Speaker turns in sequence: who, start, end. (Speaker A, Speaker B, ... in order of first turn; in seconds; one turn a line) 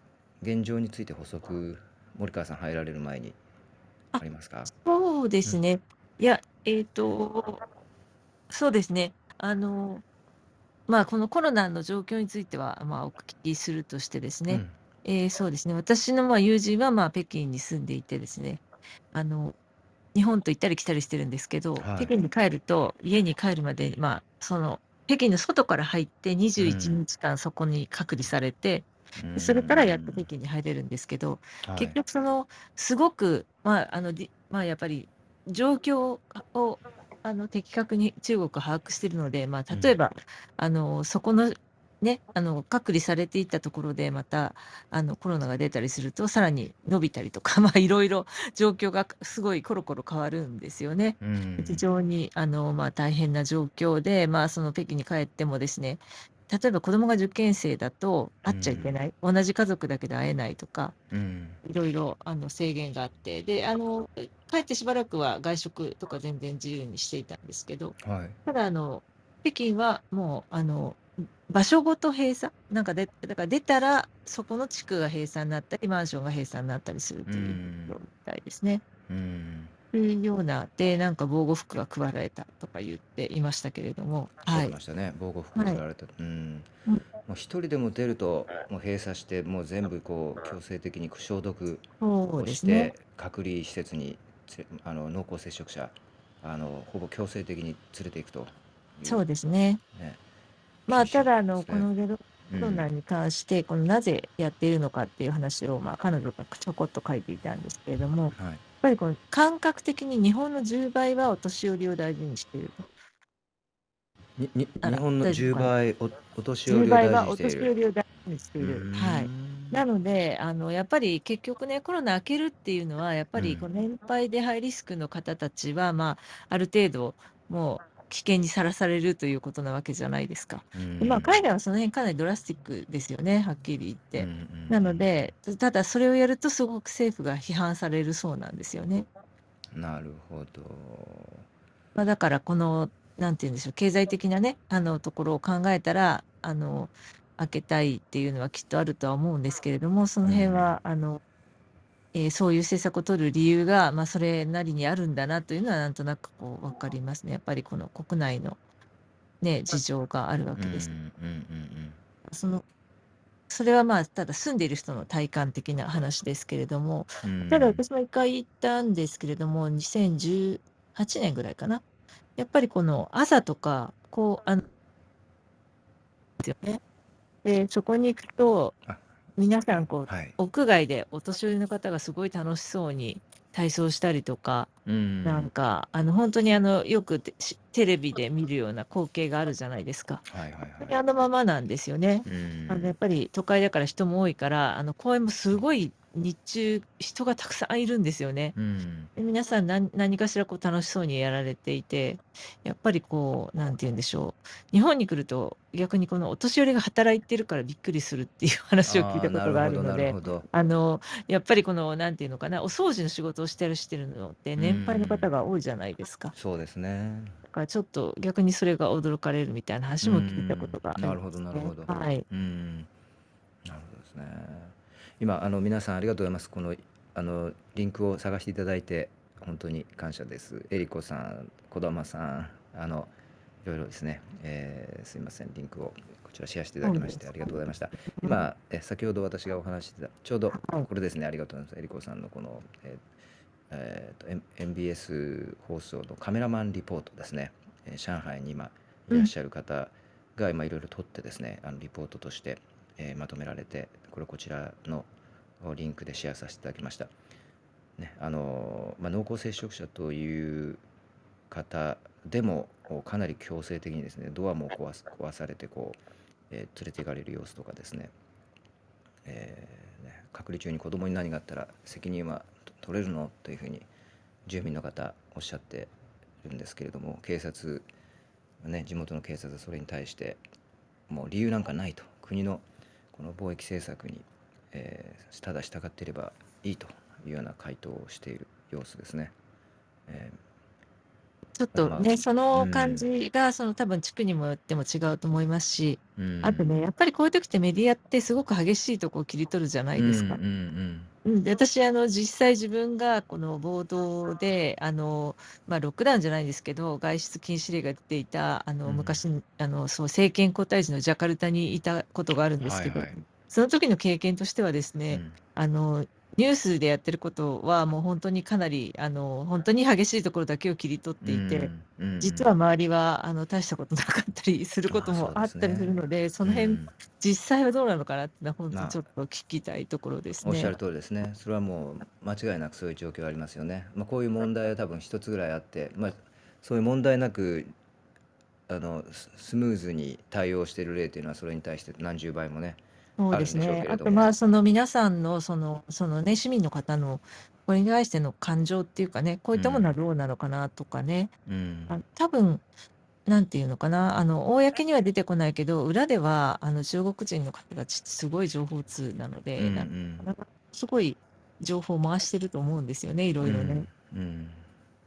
Speaker A: 0.4-3.4
Speaker B: 4.1-7.6
Speaker A: 4.2-4.7
Speaker B: 8.5-10.0
Speaker B: 10.9-19.6
Speaker A: 14.5-14.8
Speaker B: 20.1-61.0
Speaker A: 21.8-22.1
Speaker A: 26.6-27.0
Speaker A: 29.1-30.3
Speaker A: 31.6-32.0
Speaker A: 39.7-40.0
Speaker A: 51.2-51.8
Speaker A: 58.5-59.0
Speaker A: 61.1-61.6
Speaker B: 61.6-78.8
Speaker A: 68.0-68.4
Speaker A: 77.3-78.0
Speaker A: 79.1-79.7
Speaker B: 79.9-84.8
Speaker A: 84.5-86.7
Speaker B: 85.5-85.8
Speaker A: 87.2-91.9
Speaker B: 92.0-92.9
Speaker A: 92.4-99.2
Speaker B: 99.0-99.8
Speaker A: 99.9-100.2
Speaker B: 100.9-112.8
Speaker A: 100.9-101.9
Speaker A: 102.5-102.9
Speaker A: 108.3-108.6
Speaker A: 114.4-117.7
Speaker B: 114.8-115.7
Speaker B: 116.7-139.1
Speaker A: 118.6-119.8
Speaker A: 123.4-123.7
Speaker A: 130.7-131.4
Speaker A: 134.2-135.1
Speaker A: 139.7-141.4
Speaker B: 141.9-151.2
Speaker A: 150.2-150.7
Speaker B: 152.1-158.6
Speaker B: 159.4-160.9
Speaker A: 160.5-162.0
Speaker B: 162.2-162.6
Speaker B: 163.5-171.8
Speaker A: 167.2-167.8
Speaker B: 172.4-174.6
Speaker B: 176.4-176.8
Speaker B: 177.4-178.8
Speaker B: 179.4-184.7
Speaker A: 180.1-180.4
Speaker A: 184.9-185.5
Speaker B: 185.2-190.2
Speaker A: 190.3-191.0
Speaker B: 190.8-198.5
Speaker A: 192.2-192.9
Speaker A: 198.5-199.1
Speaker B: 199.2-216.3
Speaker A: 208.9-210.4
Speaker A: 214.6-215.3
Speaker A: 216.3-217.4
Speaker B: 217.5-222.2
Speaker A: 220.0-222.9
Speaker A: 223.6-233.1
Speaker A: 233.6-243.1
Speaker B: 236.8-237.5
Speaker B: 238.1-238.4
Speaker B: 240.5-240.9
Speaker A: 243.7-255.1
Speaker A: 255.6-257.1
Speaker A: 258.0-260.8
Speaker A: 261.5-268.1
Speaker A: 269.2-273.9
Speaker A: 274.5-277.9
Speaker A: 278.6-280.4
Speaker A: 281.1-289.3
Speaker A: 290.1-290.4
Speaker B: 291.6-300.4
Speaker A: 291.7-293.1
Speaker A: 296.2-296.8
Speaker A: 300.0-301.1
Speaker B: 301.2-330.8
Speaker A: 308.9-309.2
Speaker A: 312.6-313.2
Speaker A: 315.1-315.4
Speaker A: 321.2-322.5
Speaker A: 324.9-326.9
Speaker A: 328.7-329.0
Speaker A: 330.4-337.7
Speaker A: 338.7-344.3
Speaker B: 343.2-351.3
Speaker A: 349.5-349.9
Speaker A: 351.5-352.0
Speaker B: 351.9-352.6
Speaker B: 353.3-363.9
Speaker A: 359.6-360.3
Speaker A: 363.4-364.7